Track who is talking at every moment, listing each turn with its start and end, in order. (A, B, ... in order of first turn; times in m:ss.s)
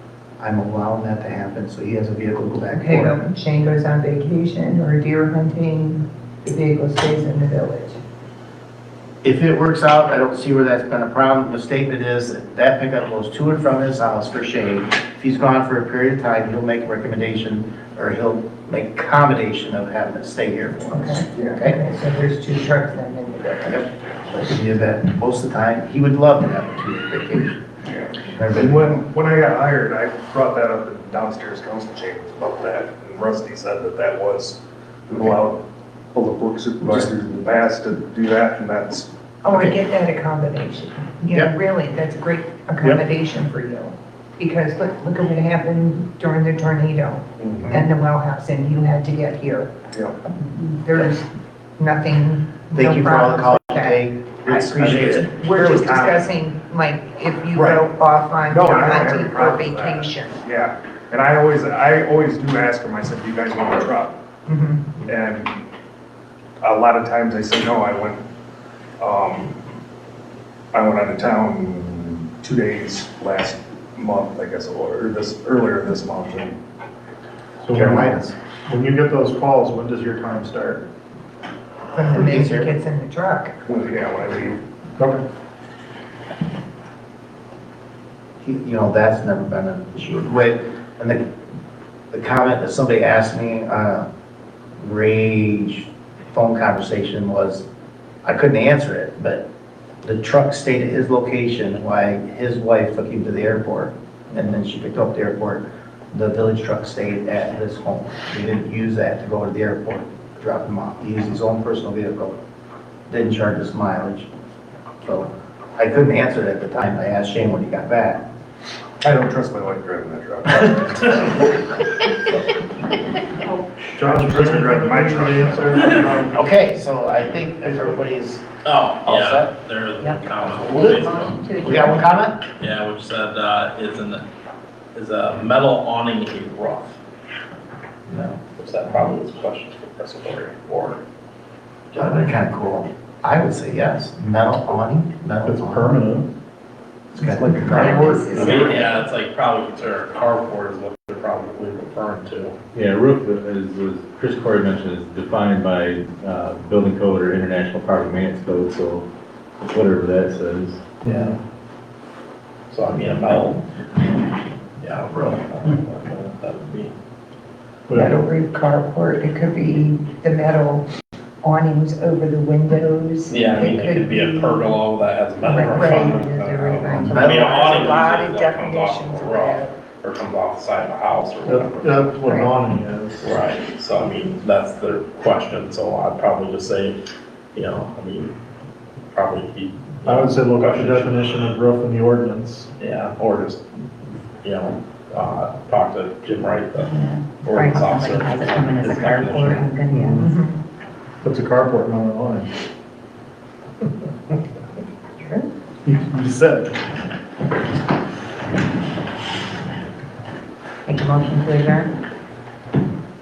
0:00.4-0:03.1 A
0:02.7-0:08.0 B
0:09.2-0:21.8 A
0:20.9-0:23.9 B
0:23.7-0:27.6 A
0:27.9-0:35.6 C
0:28.2-0:28.9 A
0:36.1-0:39.1 C
0:39.4-0:49.7 B
0:39.5-0:39.8 A
0:47.4-0:47.8 C
0:49.9-0:50.2 C
0:50.3-1:00.4 B
0:52.7-0:55.3 A
0:54.5-0:56.3 C
0:57.5-0:57.8 C
0:58.4-1:04.2 C
1:04.5-1:05.0 B
1:05.0-1:05.6 C
1:06.6-1:08.2 C
1:09.0-1:09.6 C
1:10.7-1:16.6 C
1:17.6-1:20.9 D
1:17.7-1:18.3 A
1:21.9-1:23.5 B
1:22.1-1:22.7 A
1:23.7-1:24.6 C
1:25.0-1:25.2 D
1:28.4-1:31.2 A
1:32.1-1:34.1 A
1:34.8-1:37.7 A
1:38.2-1:39.4 A
1:40.0-1:52.4 A
1:53.1-1:54.3 A
1:55.0-1:58.2 A
1:59.0-2:01.6 C
2:04.0-2:06.3 D
2:04.0-2:06.3 C
2:06.3-2:08.4 A
2:08.6-2:11.4 E
2:09.0-2:09.5 A
2:10.0-2:12.2 F
2:10.5-2:12.4 A
2:12.6-2:14.2 E
2:15.0-2:17.0 E
2:18.1-2:18.4 A
2:18.6-2:21.0 E
2:21.9-2:22.3 E
2:22.0-2:25.9 A
2:25.4-2:26.3 D
2:25.7-2:26.2 G
2:27.1-2:28.5 A
2:27.7-2:28.3 G
2:27.7-2:29.0 F
2:28.4-2:32.6 E
2:32.7-2:39.1 G
2:39.7-2:41.3 G
2:41.0-2:41.3 D
2:42.7-2:43.6 E
2:44.8-2:46.9 E
2:47.9-2:50.9 B
2:51.4-2:54.8 B
2:53.3-3:02.1 E
2:55.4-2:56.2 B
2:55.5-2:57.2 F
2:56.8-2:59.7 B
2:57.0-2:57.8 A
3:01.5-3:03.3 D
3:02.2-3:02.5 B
3:03.2-3:07.0 E
3:07.6-3:08.3 E
3:09.1-3:11.2 E
3:10.0-3:12.7 D
3:12.8-3:13.8 E
3:14.4-3:19.7 E
3:16.8-3:20.3 F
3:19.9-3:20.3 D
3:20.2-3:20.6 B
3:21.2-3:22.5 D
3:25.2-3:25.5 B
3:25.9-3:26.8 D
3:30.9-3:31.9 F